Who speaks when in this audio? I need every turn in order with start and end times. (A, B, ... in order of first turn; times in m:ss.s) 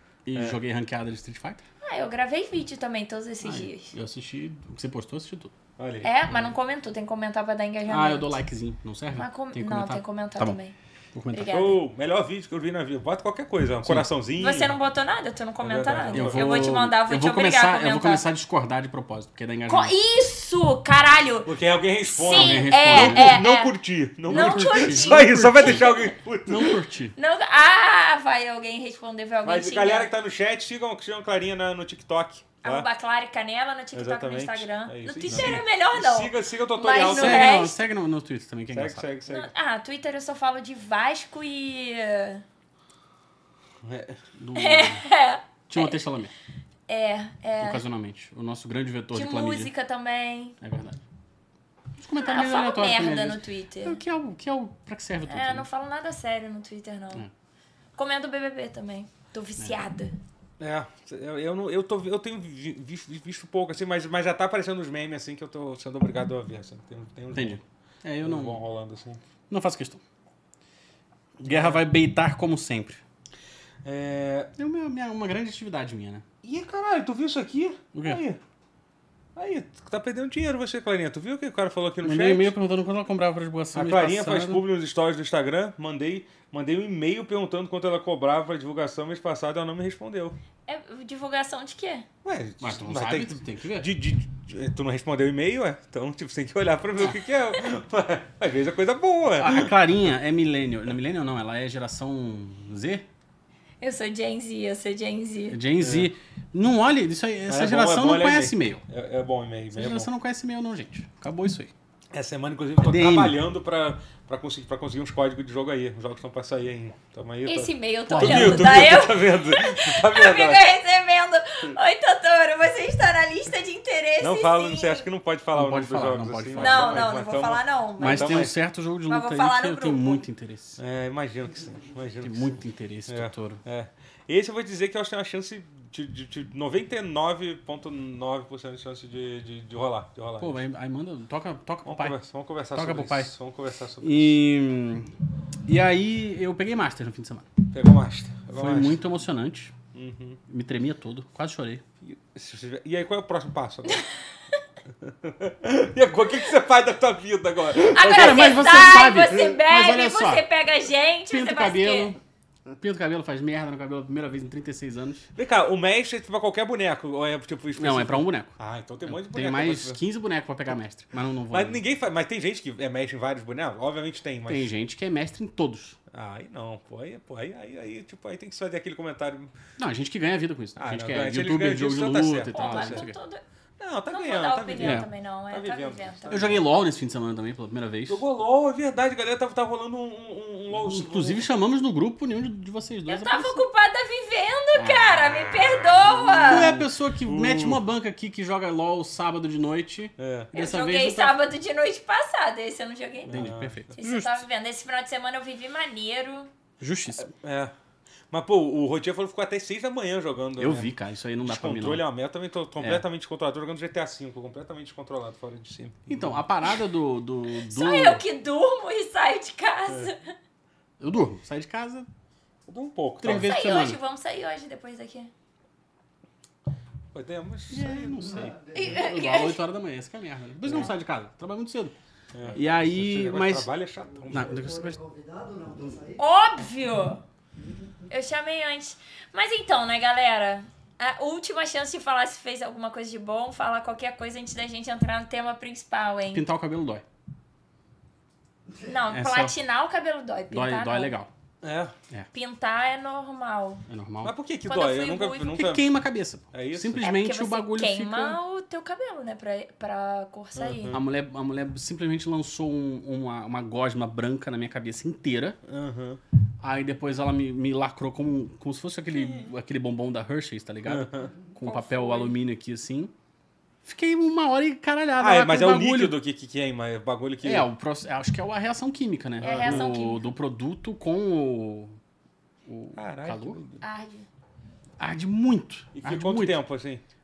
0:00.3-0:01.6 A
0:00.3-0:00.6 B
0:01.8-0:03.9 C
0:03.4-0:05.6 A
0:05.8-0:06.1 B
0:06.0-0:08.4 C
0:07.9-0:10.6 A
0:09.2-0:10.8 C
0:11.1-0:11.5 A
0:11.3-0:11.8 C
0:11.5-0:14.8 B
0:13.8-0:14.1 A
0:14.4-0:18.2 C
0:15.6-0:16.7 B
0:16.1-0:19.9 A
0:19.7-0:21.5 C
0:21.5-0:26.8 B
0:22.0-0:23.8 C
0:22.3-0:23.4 A
0:24.3-0:26.1 C
0:24.3-0:25.9 A
0:26.4-0:27.2 A
0:27.2-0:30.1 C
0:29.4-0:32.9 B
0:32.6-0:37.8 C
0:33.9-0:37.7 B
0:35.3-0:35.6 A
0:37.0-0:39.1 A
0:38.7-0:39.5 B
0:39.3-0:42.4 C
0:43.8-0:44.2 B
0:44.4-0:45.1 A
0:44.6-0:46.0 C
0:45.7-0:46.3 A
0:46.9-0:47.8 C
0:47.6-0:49.7 A
0:49.1-0:50.6 C
0:50.6-0:51.0 A
0:52.0-0:55.7 A
0:52.2-0:54.0 C
0:55.3-0:57.3 C
0:58.0-1:00.2 C
1:00.6-1:07.6 B
1:07.3-1:08.6 A
1:08.2-1:09.2 B
1:09.5-1:10.0 A
1:11.4-1:13.0 A
1:11.5-1:11.8 B
1:13.8-1:14.5 B
1:14.6-1:16.2 A
1:16.4-1:18.4 B
1:17.9-1:18.2 A
1:19.4-1:22.5 B
1:22.0-1:24.6 A
1:23.7-1:30.4 B
1:30.7-1:32.1 C
1:32.2-1:39.7 B
1:32.6-1:33.9 A
1:39.4-1:43.1 A
1:43.8-1:45.6 C
1:45.5-1:48.8 A
1:45.8-1:46.1 B
1:47.5-1:50.1 B
1:49.7-1:51.7 A
1:52.1-2:00.6 B
1:52.8-1:53.4 A
1:57.5-2:05.1 C
1:58.1-1:58.8 A
2:04.2-2:08.6 B
2:05.5-2:07.1 A
2:06.6-2:08.5 C
2:08.0-2:10.8 A
2:09.1-2:10.2 C
2:10.8-2:20.6 B
2:12.2-2:13.6 A
2:20.4-2:22.2 A
2:21.8-2:24.4 B
2:22.7-2:23.3 A
2:24.0-2:25.1 A
2:25.7-2:27.5 A
2:27.7-2:29.0 B
2:28.5-2:29.8 A
2:29.9-2:30.4 B
2:30.5-2:31.8 A
2:32.0-2:34.1 B
2:35.0-2:39.6 B
2:37.9-2:42.1 C
2:38.0-2:40.5 A
2:41.3-2:42.2 A
2:42.8-2:45.3 A
2:45.4-2:50.0 B
2:47.8-2:51.8 A
2:51.5-2:54.7 B
2:54.5-2:56.0 A
2:56.1-2:59.6 B
2:59.8-3:03.2 A
3:00.8-3:03.1 B
3:02.5-3:03.4 C
3:03.8-3:06.6 B
3:04.1-3:06.5 C
3:04.8-3:05.1 A
3:06.3-3:08.2 A
3:08.1-3:11.5 B
3:10.7-3:13.6 A
3:13.1-3:16.8 C
3:14.8-3:15.2 A
3:16.1-3:17.8 B
3:16.4-3:21.3 A
3:20.2-3:20.5 B
3:20.5-3:26.5 C
3:23.3-3:23.9 B
3:23.3-3:24.4 A
3:26.8-3:27.3 A
3:27.2-3:27.7 B
3:28.3-3:30.9 B
3:30.6-3:32.0 A
3:31.4-3:36.4 B
3:32.8-3:33.0 A
3:36.1-3:38.2 A
3:37.6-3:40.3 C
3:39.9-3:40.1 B
3:41.0-3:42.1 A
3:42.7-3:43.5 B
3:43.2-3:44.0 A
3:43.3-3:45.3 C
3:47.1-3:48.5 B
3:47.7-3:52.0 A
3:48.2-3:49.1 D
3:48.8-3:49.6 C
3:52.3-3:54.6 B
3:52.5-3:53.7 A
3:54.0-3:56.2 D
3:54.3-3:55.0 A
3:56.2-3:57.2 C
3:57.6-3:58.1 D
3:58.1-4:06.5 C
4:06.3-4:07.0 A
4:08.7-4:09.0 D
4:08.8-4:11.2 C
4:09.1-4:09.5 A
4:10.5-4:11.3 A
4:11.6-4:11.9 B
4:12.3-4:13.8 C
4:13.9-4:14.3 A
4:14.2-4:15.9 B
4:14.7-4:15.6 C
4:15.5-4:18.4 A
4:16.5-4:17.1 B
4:17.0-4:21.0 C
4:20.6-4:21.0 B
4:20.9-4:25.6 A
4:25.6-4:26.2 B
4:26.6-4:33.1 A
4:29.1-4:29.5 C
4:30.9-4:31.3 B
4:31.6-4:32.4 C
4:33.8-4:36.2 A
4:35.2-4:37.7 B
4:37.4-4:42.0 A
4:39.4-4:39.9 B
4:39.4-4:40.2 C
4:42.6-4:43.6 A
4:43.0-4:43.8 B
4:43.8-4:44.3 C
4:45.0-4:46.6 A
4:45.9-4:47.0 B